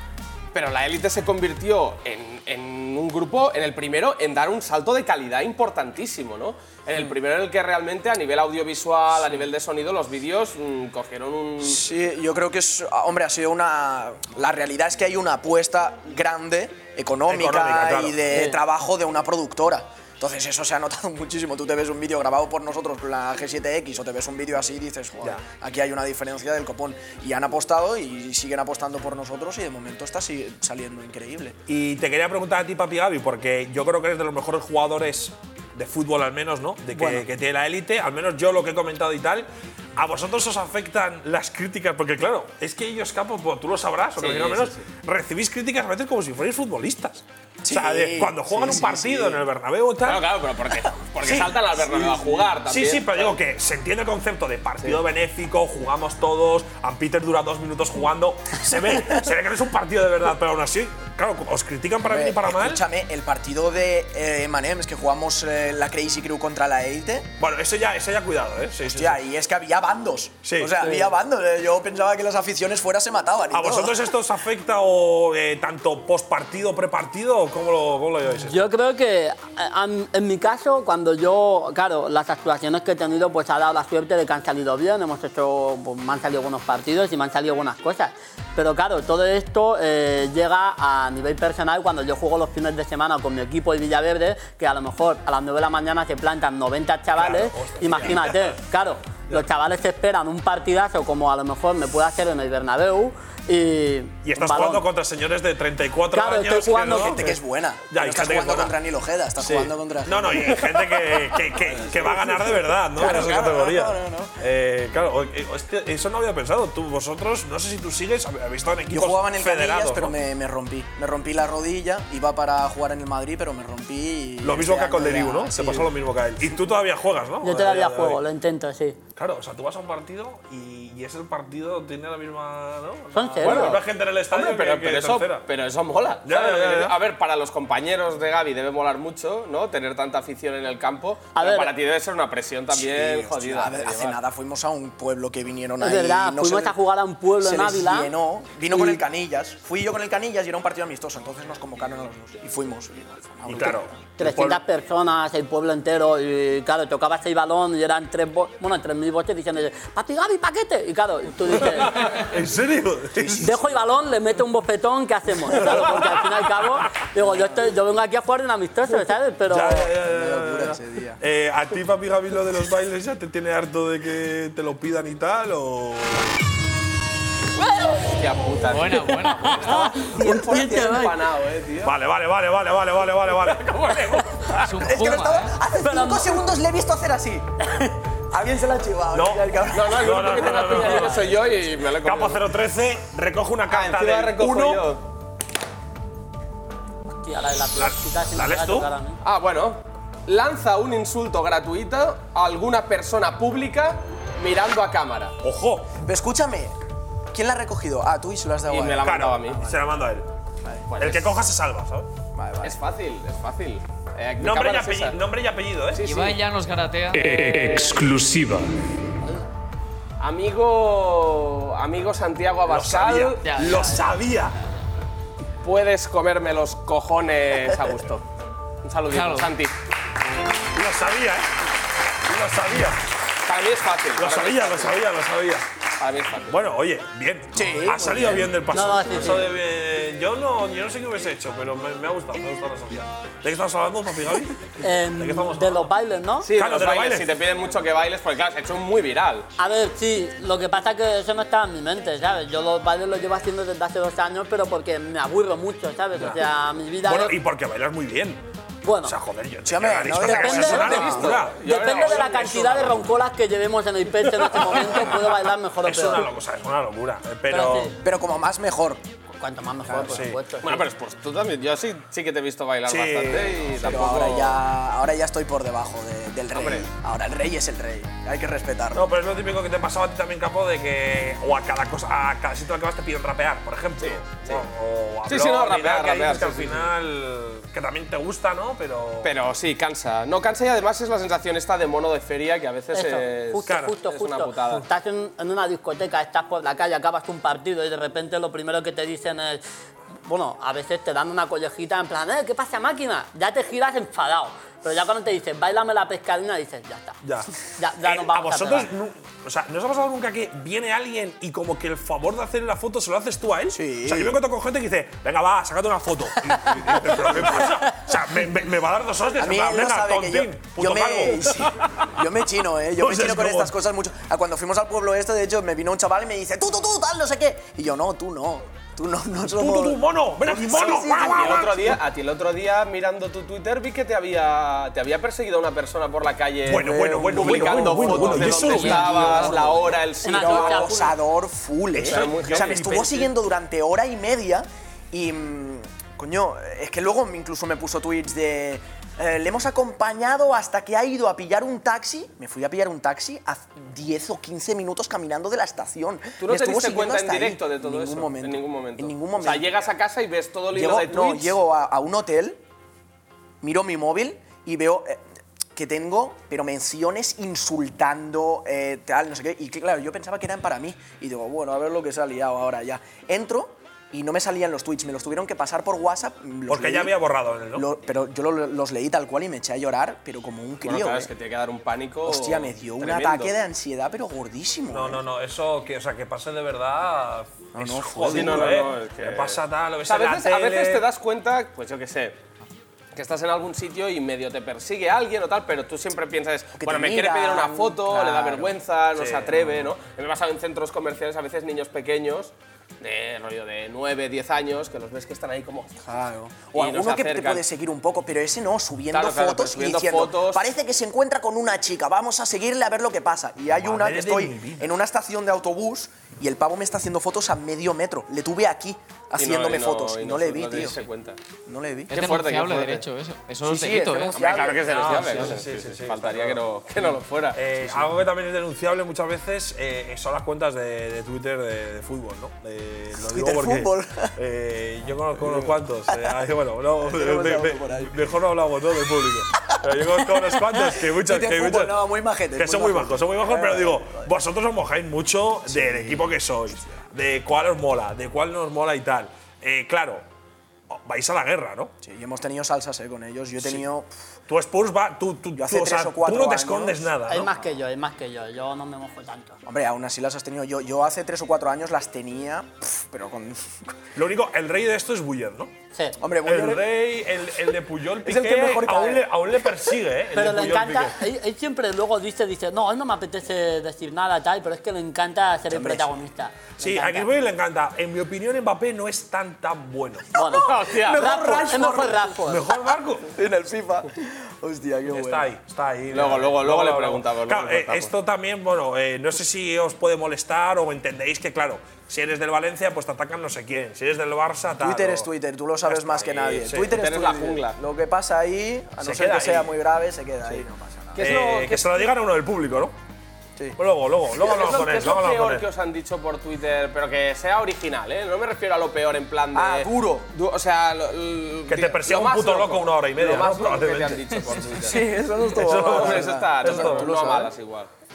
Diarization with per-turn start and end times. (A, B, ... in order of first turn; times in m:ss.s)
0:00.5-0:11.8 A
0:11.6-0:31.6 B
0:17.3-0:18.2 C
0:18.3-0:18.6 D
0:31.7-0:50.3 C
0:36.9-0:37.2 B
0:44.2-0:44.9 A
0:47.6-0:49.4 B
0:50.0-0:53.4 A
0:51.2-1:02.8 C
1:02.0-1:07.3 B
1:07.4-1:09.2 C
1:08.8-1:14.1 B
1:10.4-1:10.8 C
1:13.5-1:18.6 C
1:18.5-1:44.8 D
1:37.1-1:38.6 C
1:44.2-1:47.3 C
1:46.1-1:47.3 D
1:46.9-1:54.4 B
1:47.9-1:48.7 C
1:49.4-2:00.1 C
1:58.9-2:05.9 B
2:04.4-2:08.2 C
2:07.4-2:09.0 D
2:09.2-2:15.4 C
2:13.1-2:13.8 D
2:13.4-2:24.2 A
2:16.2-2:17.0 C
2:21.3-2:21.7 D
2:22.7-2:26.8 B
2:25.8-2:28.1 D
2:27.4-2:33.9 B
2:28.7-2:29.0 D
2:33.5-2:34.6 C
2:34.2-2:42.2 D
2:41.5-2:43.6 C
2:43.2-2:49.9 D
2:45.5-2:46.2 C
2:49.5-2:56.3 C
2:50.0-2:51.2 B
2:58.0-3:02.0 A
2:58.7-2:59.8 E
2:59.6-3:01.2 D
3:01.8-3:03.7 C
3:03.3-3:04.7 A
3:04.6-3:05.5 E
3:04.8-3:10.5 B
3:05.8-3:06.4 D
3:09.1-3:11.3 C
3:09.7-3:12.4 A
3:10.6-3:11.4 D
3:11.9-3:14.9 C
3:13.7-3:15.0 A
3:17.1-3:19.2 D
3:17.7-3:18.9 C
3:19.2-3:25.4 A
3:25.4-3:25.9 C
3:26.0-3:26.7 B
3:27.3-3:29.7 B
3:28.7-3:29.8 A
3:29.0-3:30.3 C
3:30.9-3:31.5 A
3:31.0-3:32.1 C
3:32.3-3:32.8 B
3:32.6-3:35.2 A
3:34.4-3:36.0 C
3:35.9-3:36.4 A
3:36.0-3:37.6 E
3:37.3-3:38.6 C
3:40.2-3:43.5 A
3:42.6-3:44.5 C
3:43.4-3:43.9 E
3:45.6-3:48.2 A
3:48.8-3:49.7 A
3:49.1-3:49.5 E
3:50.7-3:51.5 C
3:52.3-3:53.0 C
3:53.4-3:55.0 A
3:54.2-3:55.6 C
3:56.0-3:56.6 A
3:56.5-4:05.9 C
3:57.5-3:58.5 B
3:58.7-3:59.5 D
4:04.8-4:06.5 D
4:06.4-4:09.5 A
4:06.5-4:07.3 C
4:09.6-4:17.4 D
4:16.2-4:16.4 C
4:17.0-4:18.4 C
4:18.8-4:19.2 D
4:19.0-4:22.2 C
4:19.6-4:21.2 B
4:20.2-4:26.3 D
4:20.6-4:23.0 A
4:25.8-4:27.9 C
4:27.5-4:27.9 D
4:28.0-4:29.0 B
4:29.4-4:30.8 D
4:29.9-4:30.2 B
4:30.0-4:30.4 C
4:30.6-4:34.6 A
4:32.9-4:33.7 C
4:33.8-4:39.1 B
4:36.5-4:36.9 A
4:38.9-4:49.3 C
4:44.0-4:44.6 A
4:45.2-4:46.9 A
4:49.2-4:54.8 A
4:52.9-4:59.6 D
4:53.6-4:54.0 C
5:00.2-5:07.2 D
5:07.2-5:07.5 C
5:07.8-5:08.9 D
5:08.0-5:22.0 C
5:13.7-5:14.4 B
5:19.4-5:31.7 B
5:23.0-5:23.7 C
5:29.5-5:32.0 C
5:30.7-5:40.9 A
5:36.6-5:39.6 C
5:36.8-5:59.8 B
5:38.8-5:39.4 D
5:40.2-5:41.2 D
5:41.9-5:43.3 C
5:42.0-5:43.0 A
5:56.4-6:01.6 A
6:00.7-6:02.6 B
6:03.6-6:05.2 B
6:05.7-6:17.2 B
6:16.7-6:17.9 C
6:17.7-6:21.3 B
6:20.8-6:23.5 A
6:22.2-6:25.2 B
6:24.9-6:31.1 C
6:27.7-6:28.9 B
6:28.3-6:32.4 A
6:33.1-6:46.0 A
6:36.8-6:38.8 B
6:39.2-6:39.5 C
6:46.0-7:01.0 B
6:46.7-6:47.6 A
6:49.1-6:50.7 A
6:53.8-6:54.8 C
6:59.4-7:01.4 A
7:01.6-7:02.1 B
7:02.1-7:03.0 A
7:02.1-7:05.5 E
7:03.6-7:05.3 B
7:04.4-7:07.6 A
7:04.9-7:06.6 C
7:07.5-7:22.0 C
7:07.8-7:08.1 B
7:13.1-7:14.3 B
7:15.4-7:16.4 B
7:17.0-7:18.2 B
7:19.6-7:24.3 B
7:22.5-7:30.2 C
7:25.7-7:26.4 B
7:30.9-7:31.9 C
7:32.0-7:34.1 B
7:34.5-7:37.5 C
7:35.6-7:37.0 B
7:37.3-7:39.6 D
7:39.6-7:43.8 B
7:44.1-7:45.7 C
7:46.2-7:46.8 B
7:46.4-7:51.2 C
7:48.2-7:49.3 B
7:50.3-7:57.3 D
7:55.7-7:56.1 B
7:56.8-8:00.4 C
8:00.3-8:02.6 D
8:00.4-8:01.4 A
8:01.1-8:02.0 B
8:01.4-8:03.3 C
8:03.3-8:05.5 B
8:05.1-8:15.3 C
8:06.1-8:08.1 A
8:14.8-8:21.2 B
8:15.9-8:16.6 C
8:16.5-8:17.8 A
8:19.0-8:19.7 C
8:21.2-8:22.1 A
8:21.2-8:22.9 C
8:23.8-8:25.6 C
8:24.4-8:35.1 A
8:29.5-8:30.3 B
8:31.7-8:34.4 C
8:34.8-8:37.5 B
8:35.5-8:37.1 C
8:35.7-8:37.9 A